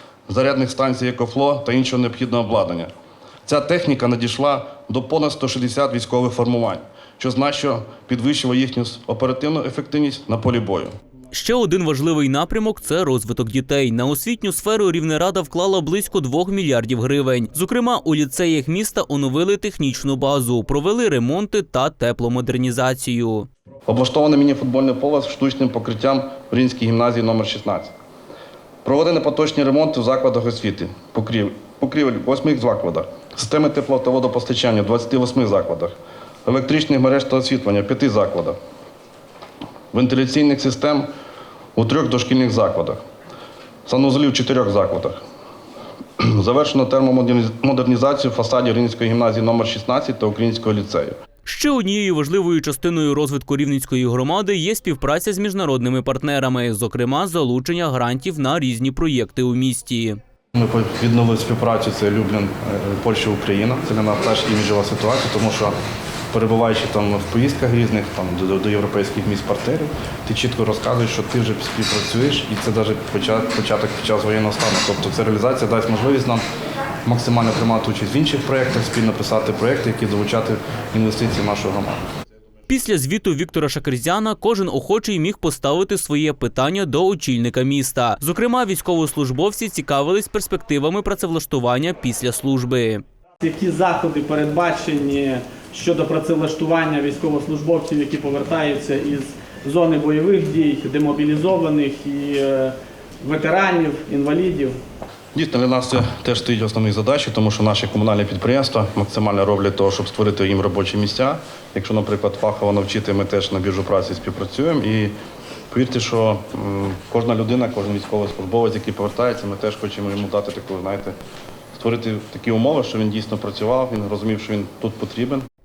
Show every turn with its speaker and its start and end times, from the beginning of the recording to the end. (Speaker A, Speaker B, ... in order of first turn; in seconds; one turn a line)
Speaker A: 0.3-2.9
Speaker A: 3.5-10.9
Speaker B: 11.3-23.5
Speaker A: 23.9-27.9
Speaker A: 28.8-35.9
Speaker A: 36.5-38.6
Speaker A: 39.9-41.1
Speaker A: 41.8-43.0
Speaker A: 43.9-45.2
Speaker A: 46.2-51.2
Speaker B: 51.5-60.2
Speaker A: 60.5-65.8
Speaker A: 66.3-76.4
Speaker A: 77.0-82.0
Speaker B: 82.7-93.0
Speaker C: 93.4-104.8
Speaker A: 105.3-115.1
Speaker A: 115.7-121.1
Speaker A: 121.8-125.5